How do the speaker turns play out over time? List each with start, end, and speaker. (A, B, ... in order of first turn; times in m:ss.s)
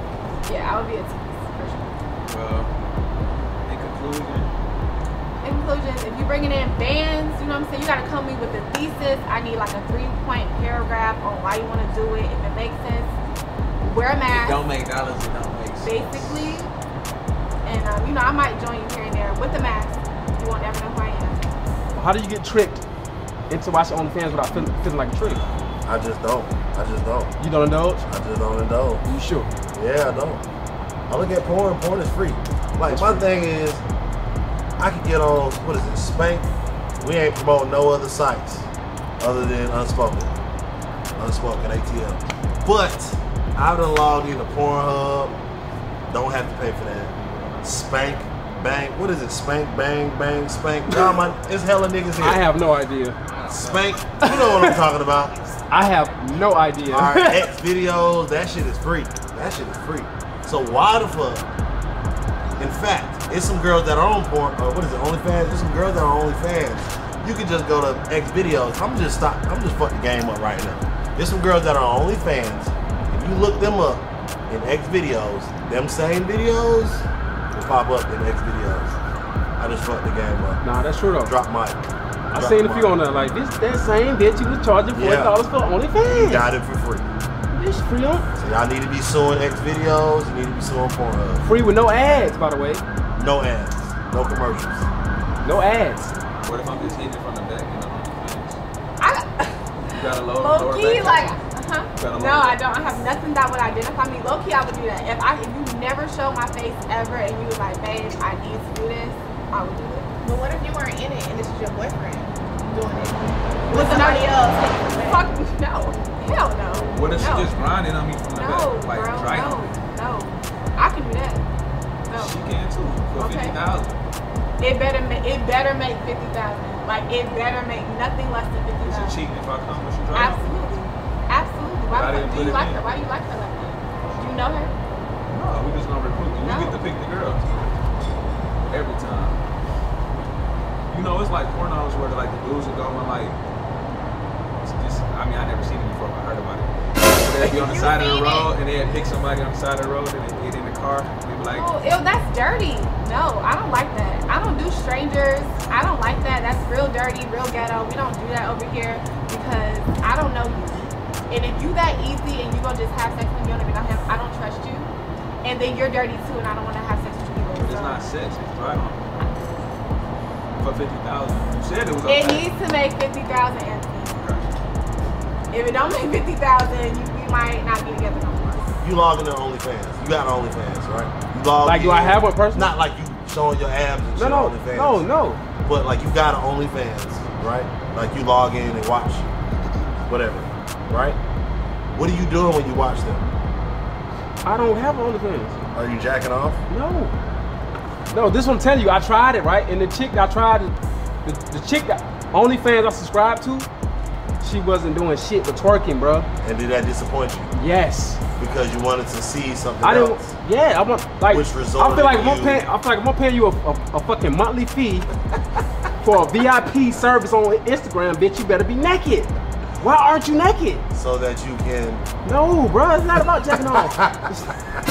0:00.4-0:02.0 A
0:02.2-0:02.7 B
0:03.6-0:04.5 B
0:05.4-0:13.1 A
0:13.8-0:14.6 A
0:14.3-0:16.6 B
0:15.8-0:16.7 A
0:17.6-0:21.4 A
0:21.9-0:22.8 C
0:23.5-0:25.4 C
0:25.8-0:27.3 D
0:27.4-0:28.0 C
0:28.0-0:29.0 D
0:29.0-0:29.5 C
0:29.7-0:30.4 D
0:31.1-0:33.8 D
0:32.8-0:33.3 C
0:34.8-0:36.5 D
0:37.0-0:38.7 D
0:39.2-0:40.3 D
0:41.2-0:45.4 D
0:46.1-0:52.4 D
0:50.9-0:51.2 C
0:52.2-0:53.2 C
0:53.5-0:55.6 D
0:54.2-0:54.8 C
0:55.7-0:57.5 C
0:56.9-1:01.4 D
1:02.6-1:19.0 D
1:19.6-1:20.6 D
1:20.6-1:21.3 C
1:21.2-1:21.8 D
1:22.3-1:26.5 C
1:22.3-1:23.0 D
1:24.9-1:25.4 D
1:26.0-1:27.0 D
1:27.5-1:28.2 C
1:28.4-1:31.4 D
1:31.4-1:32.8 C
1:33.2-1:34.9 D
1:35.4-1:36.1 C
1:36.4-1:38.6 B
1:39.0-1:50.1 A
1:39.9-1:41.4 B
1:42.0-1:42.6 B
1:50.2-1:55.2 E
1:53.7-1:57.5 A
1:56.7-1:59.8 B
1:58.3-2:01.4 A
2:02.1-2:02.4 A
2:02.1-2:04.0 B
2:03.2-2:03.6 A
2:04.6-2:09.2 A
2:08.8-2:10.5 B
2:10.1-2:14.7 A
2:11.9-2:12.8 B
2:15.3-2:17.8 B
2:16.4-2:16.8 A
2:18.6-2:19.4 B
2:20.9-2:23.4 B
2:24.6-2:31.7 B
2:27.2-2:28.5 A
2:31.5-2:44.9 A
2:45.4-2:48.0 A
2:47.5-2:49.0 B
2:50.6-2:52.5 B
2:52.0-2:54.2 A
2:54.1-2:54.5 B
2:55.5-2:58.7 A
2:58.8-3:05.0 D
3:01.6-3:02.7 C
3:04.2-3:05.4 C
3:05.6-3:09.3 D
3:10.1-3:11.2 D
3:11.9-3:13.3 D
3:14.4-3:15.6 C
3:15.7-3:16.6 D
3:16.7-3:17.1 C
3:18.1-3:20.7 C
3:21.2-3:23.7 C
3:24.4-3:26.3 C
3:26.4-3:27.5 D
3:27.5-3:28.2 C
3:28.4-3:30.3 D
3:29.8-3:35.1 C
3:31.3-3:32.6 D
3:36.0-3:40.8 C
3:40.9-3:42.1 D
3:42.2-3:44.5 C
3:43.5-3:44.2 D